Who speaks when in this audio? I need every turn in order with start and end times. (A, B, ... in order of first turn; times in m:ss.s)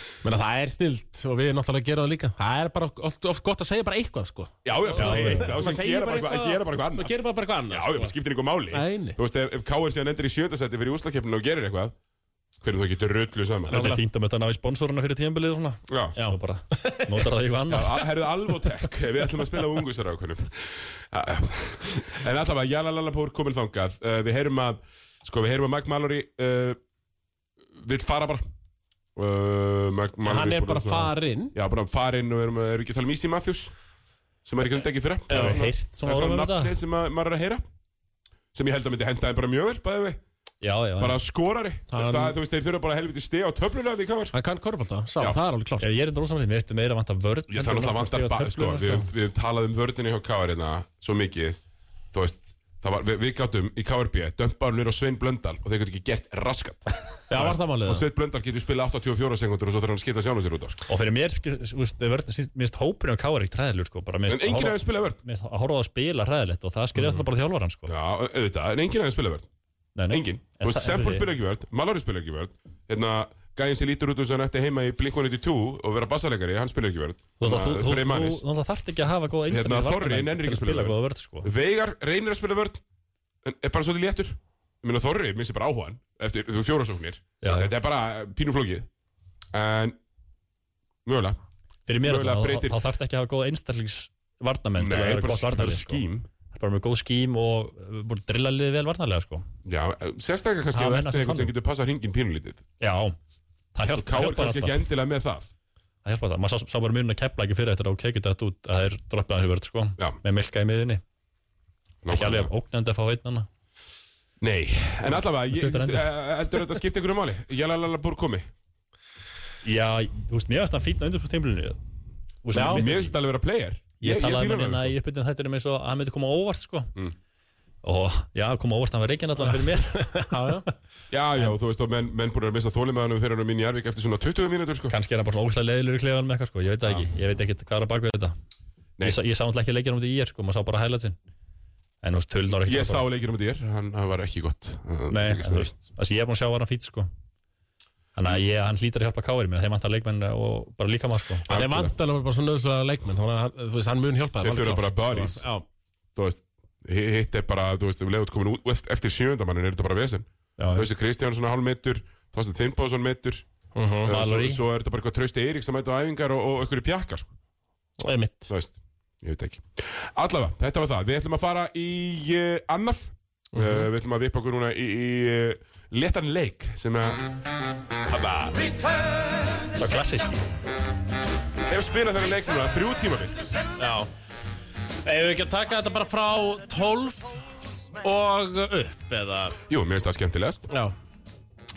0:00.2-0:08.1 A
0:04.6-0:11.9 B
0:05.0-0:05.6 C
0:08.7-0:09.2 A
0:12.6-0:13.8 B
0:13.7-0:14.0 A
0:13.7-0:18.0 C
0:15.9-0:16.2 B
0:16.2-0:17.1 A
0:17.7-0:26.8 B
0:27.8-0:28.4 B
0:29.1-0:33.7 B
0:30.2-0:31.5 A
0:34.4-0:37.6 B
0:35.3-0:35.6 A
0:35.3-0:36.8 C
0:38.5-0:40.2 B
0:40.6-0:41.2 C
0:41.0-0:44.3 B
0:41.9-0:42.3 A
0:44.3-0:46.0 A
0:45.8-0:49.1 C
0:47.5-0:51.6 B
0:52.1-1:00.8 B
0:57.3-0:58.0 A
1:00.9-1:07.9 C
1:04.3-1:05.2 B
1:07.9-1:09.5 B
1:10.0-1:11.3 C
1:10.1-1:18.4 B
1:17.4-1:21.5 C
1:19.5-1:22.8 B
1:23.4-1:28.9 B
1:27.4-1:27.7 C
1:29.5-1:30.0 B
1:31.0-1:31.4 B
1:31.9-1:39.4 C
1:32.0-1:32.8 B
1:34.8-1:36.3 B
1:39.6-1:42.6 B
1:40.7-1:41.5 C
1:42.8-1:43.2 C
1:43.7-1:44.7 C
1:43.9-1:45.5 B
1:46.0-1:51.0 C
1:52.0-1:52.5 B
1:52.1-1:53.5 C
1:54.4-1:58.5 B
1:55.4-1:56.1 C
1:59.6-2:01.8 C
2:02.4-2:03.1 C
2:02.5-2:02.8 A
2:02.5-2:04.9 B
2:04.0-2:06.9 C
2:07.8-2:10.4 C
2:09.9-2:10.6 A
2:11.1-2:14.9 B
2:14.9-2:18.4 C
2:19.0-2:21.2 C
2:22.0-2:23.0 C
2:22.6-2:25.7 B
2:25.1-2:27.1 C
2:28.2-2:31.5 C
2:31.4-2:31.9 B
2:31.5-2:35.6 A
2:34.4-2:35.4 B
2:36.2-2:43.4 B
2:40.6-2:40.9 C
2:43.7-2:44.1 A
2:44.0-2:47.3 B
2:44.1-2:44.6 C
2:48.0-2:48.5 A
2:48.5-2:57.2 B
2:53.5-2:53.9 A
2:58.1-2:58.7 B
2:59.7-3:00.4 C
3:01.7-3:03.5 B
3:03.8-3:04.1 A
3:05.0-3:07.4 A
3:08.0-3:09.6 A
3:09.7-3:10.7 B
3:10.7-3:10.9 A